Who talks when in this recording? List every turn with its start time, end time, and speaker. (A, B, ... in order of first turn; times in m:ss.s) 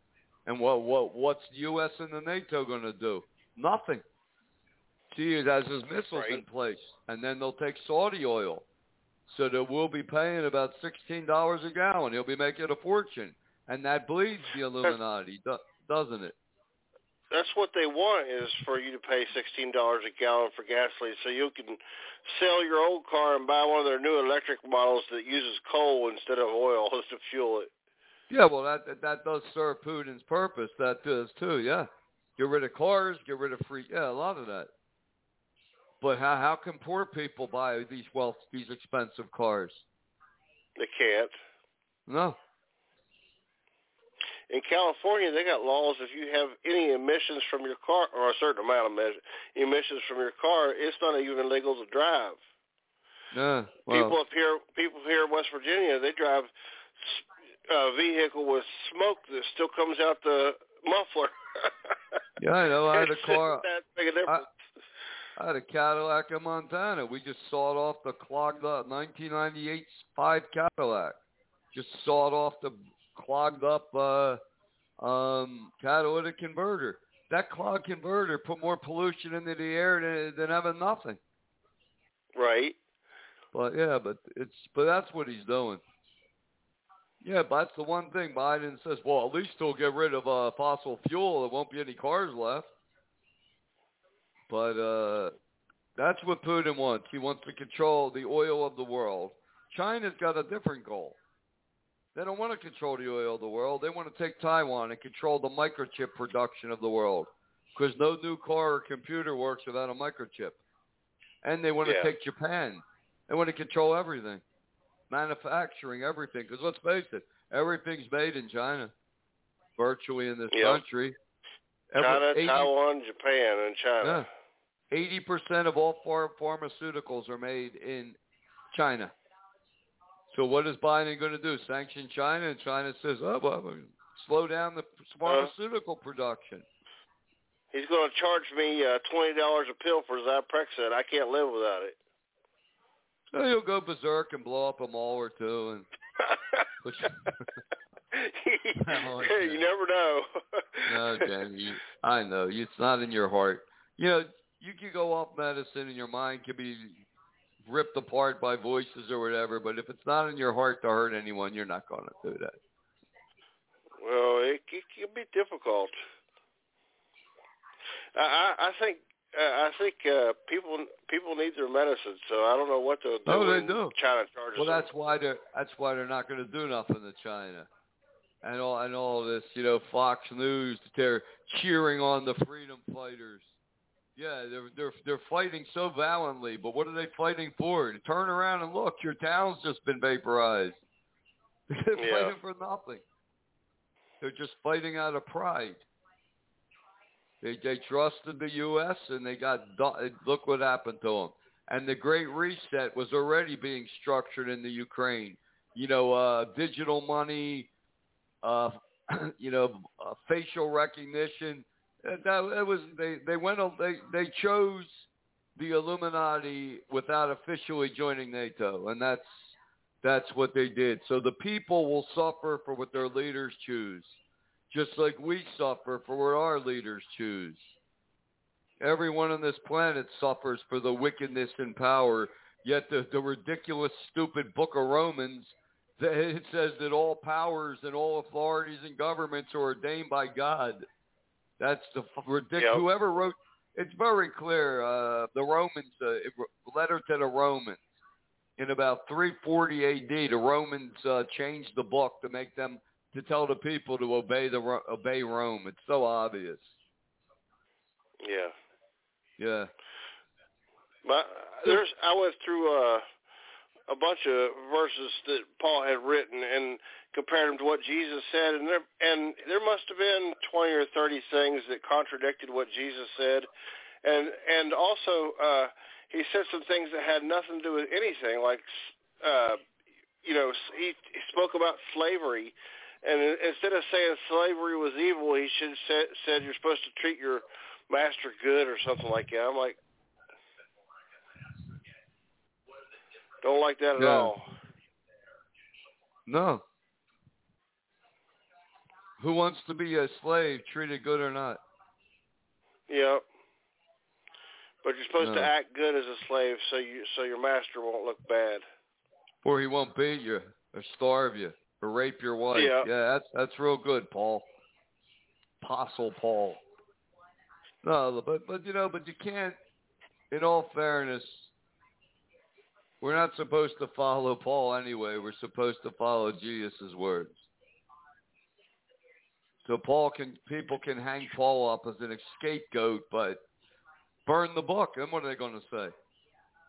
0:00.5-0:04.0 A
0:05.1-0:08.6 A
0:09.3-0:16.4 A
0:17.3-0:27.7 B
0:28.3-0:34.7 A
0:36.0-0:39.8 A
0:40.8-0:41.3 B
0:42.1-0:42.4 A
0:44.5-0:52.4 B
0:53.3-0:54.2 A
0:53.9-0:56.5 B
0:57.0-1:01.9 B
1:02.4-1:03.7 A
1:02.9-1:04.5 B
1:05.4-1:11.2 A
1:11.7-1:14.4 A
1:15.0-1:21.2 A
1:22.4-1:22.8 B
1:23.5-1:25.8 A
1:27.2-1:32.7 A
1:34.5-1:35.3 A
1:36.0-1:41.2 A
1:42.1-1:50.6 A
1:51.4-1:54.4 A
1:51.8-1:52.1 B
1:55.1-1:58.9 A
1:59.8-2:01.2 A
2:00.5-2:00.8 B
2:01.9-2:02.7 A
2:02.0-2:04.3 B
2:04.0-2:04.3 A
2:04.9-2:08.2 A
2:08.7-2:09.1 A
2:10.3-2:16.6 A
2:15.3-2:15.5 B
2:17.7-2:22.0 B
2:23.3-2:25.9 A
2:26.8-2:27.5 A
2:28.1-2:31.3 B
2:28.8-2:29.6 A
2:30.9-2:37.0 A
2:37.6-2:42.6 A
2:44.0-2:45.9 B
2:48.1-2:54.9 B
2:53.3-2:53.9 A
2:54.6-2:57.7 A
2:58.4-3:03.5 A
3:04.2-3:10.8 A
3:11.7-3:13.0 A
3:12.0-3:12.4 B
3:14.2-3:15.8 A
3:17.4-3:27.7 A
3:28.4-3:35.0 A
3:35.6-3:44.2 A
3:44.7-3:47.7 A
3:48.8-4:00.9 A
4:01.6-4:07.8 A
4:02.6-4:02.8 B
4:08.6-4:16.7 A
4:18.2-4:18.5 B
4:19.4-4:19.7 A
4:21.0-4:23.0 B
4:23.9-4:33.5 B
4:34.0-4:39.6 B
4:40.2-4:49.8 B
4:53.4-4:54.5 B
4:54.0-4:54.3 A
4:56.3-4:56.6 A
4:59.2-5:01.6 A
5:02.9-5:03.2 B
5:04.8-5:08.6 B
5:05.2-5:05.5 A
5:09.4-5:14.5 A
5:12.5-5:12.9 B
5:15.6-5:16.6 A
5:17.8-5:19.6 A
5:20.3-5:21.5 A
5:23.0-5:27.4 A
5:29.6-5:33.4 A
5:34.3-5:35.9 A